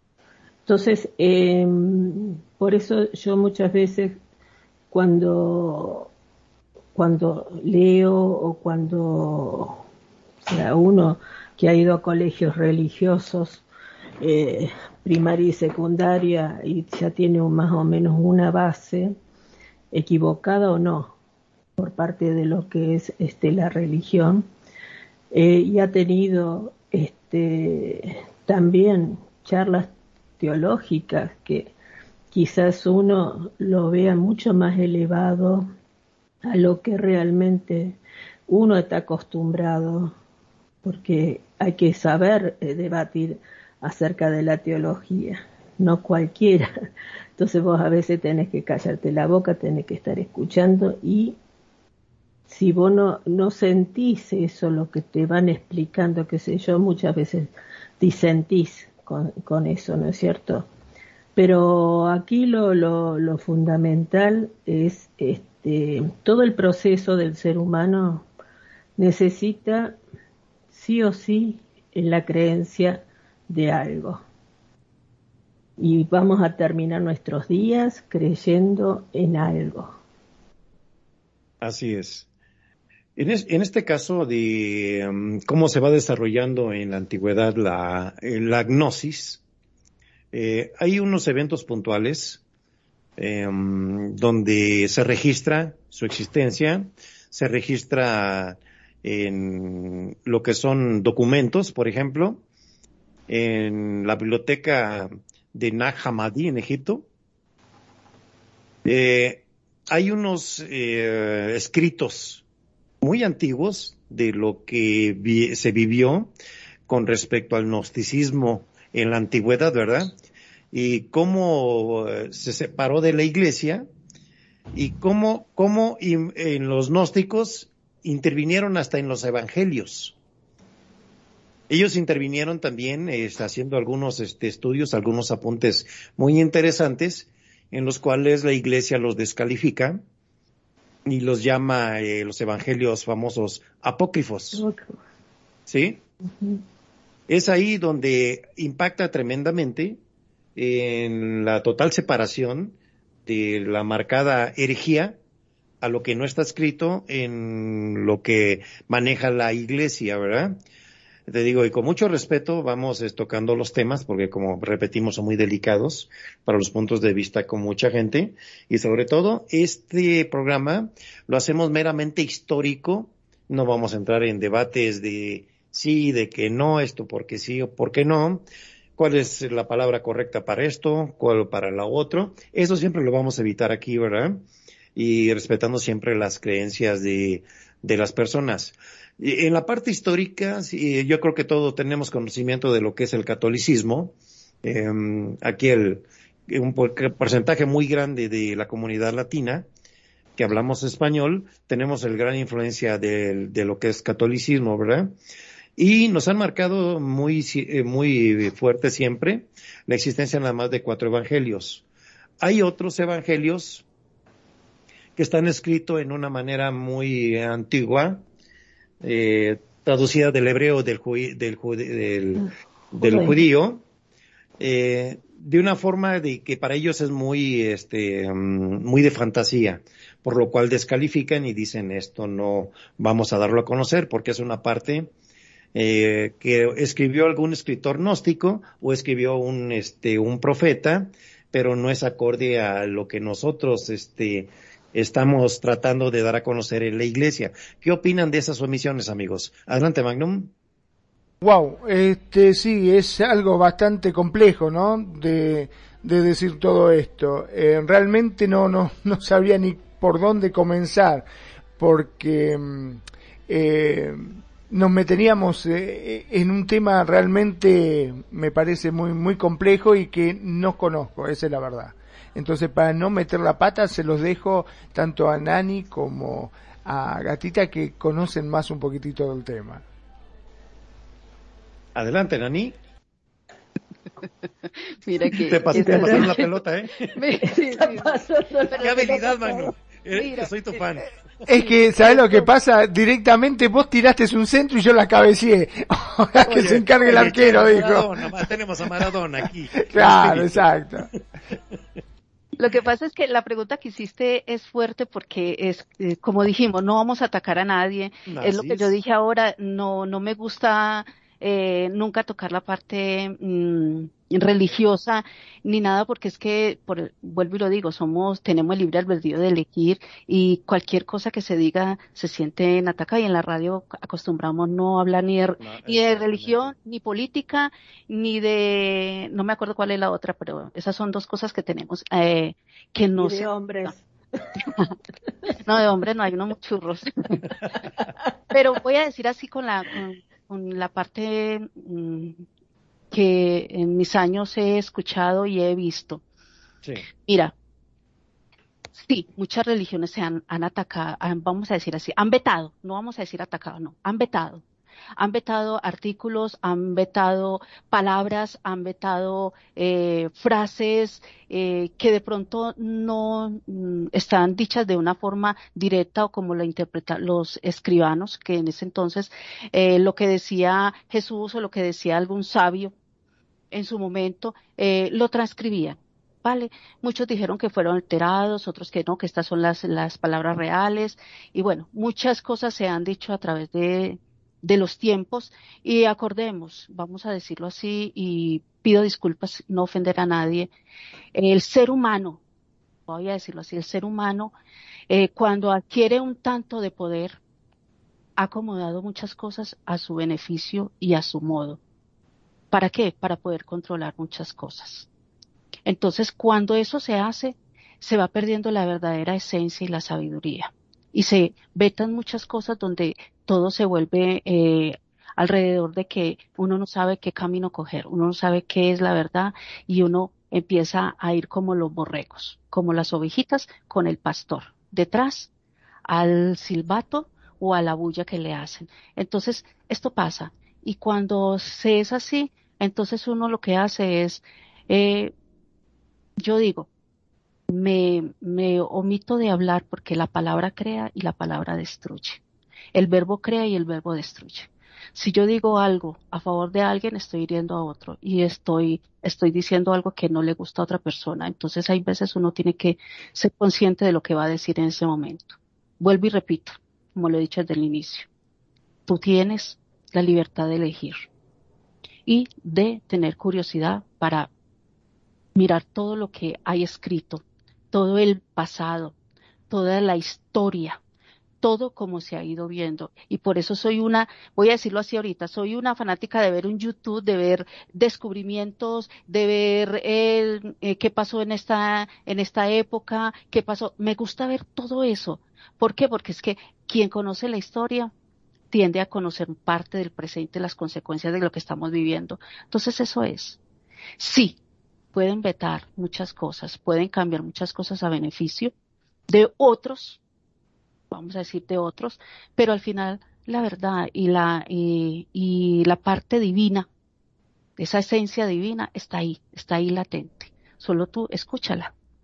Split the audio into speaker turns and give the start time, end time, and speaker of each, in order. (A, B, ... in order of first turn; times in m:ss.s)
0:00.6-0:04.2 A
0:04.9-0:06.1 A
0:06.9-0:09.8 A
0:10.4-0:13.6 A
0:14.2-0:19.1 A
0:19.9-0:21.1 A
0:21.8-0:24.4 A
0:25.3-0:31.7 A
0:32.3-0:35.7 A
0:36.4-0:40.1 A
0:40.8-0:46.7 A
0:47.4-0:51.4 A
0:52.5-1:00.7 A
1:01.4-1:08.3 A
1:09.0-1:10.0 A
1:10.7-1:14.2 A
1:15.8-1:19.9 A
1:21.6-1:22.3 B
1:23.2-1:29.4 B
1:30.3-1:32.4 B
1:33.2-1:42.4 B
1:43.3-1:47.1 B
1:48.8-1:52.4 B
1:53.0-1:56.3 B
1:56.9-2:00.1 B
2:00.7-2:03.9 B
2:04.7-2:10.2 B
2:11.7-2:20.0 B
2:21.0-2:24.6 B
2:24.5-2:25.0 A
2:25.7-2:26.0 B
2:27.3-2:30.0 B
2:30.6-2:35.2 B
2:35.8-2:40.6 B
2:41.3-2:58.4 B
2:59.0-3:04.4 B
3:04.9-3:19.7 B
3:20.4-3:25.1 B
3:25.8-3:31.8 B
3:32.4-3:33.8 B
3:35.2-3:38.2 B
3:39.0-3:43.8 B
3:43.0-3:43.4 A
3:44.6-3:55.1 B
3:55.7-4:10.5 B
4:11.4-4:21.2 C
4:21.8-4:39.8 C
4:41.9-4:42.8 B
4:45.0-4:46.5 D
4:45.3-4:47.1 B
4:45.7-4:46.3 A
4:47.1-4:50.5 D
4:47.5-4:49.4 A
4:48.8-4:51.1 B
4:51.4-4:58.5 C
4:52.0-4:52.5 D
4:56.4-5:00.6 B
4:59.8-5:01.1 C
5:02.6-5:33.5 D
5:08.3-5:08.9 B
5:25.6-5:26.7 B
5:33.2-5:34.0 A
5:35.6-5:37.2 D
5:38.5-5:42.4 D
5:43.1-5:46.2 D
5:47.2-5:47.5 D
5:49.0-5:54.6 D
5:55.2-6:12.9 D
6:13.7-6:30.7 D
6:31.3-6:32.4 D
6:33.1-6:34.5 D
6:35.1-6:37.4 D
6:38.4-6:41.8 D
6:42.7-6:45.1 D
6:45.8-7:05.5 D
7:06.0-7:15.3 D
7:16.4-7:16.9 D
7:17.7-7:22.4 D
7:22.9-7:38.3 D
7:39.1-7:41.3 D
7:42.2-7:44.5 D
7:45.6-7:49.1 D
7:49.7-7:51.0 D
7:51.6-8:08.1 D
8:08.7-8:13.6 D
8:14.2-8:14.6 D
8:15.1-8:18.7 D
8:19.3-8:20.2 D
8:21.1-8:26.9 D
8:27.8-8:31.9 D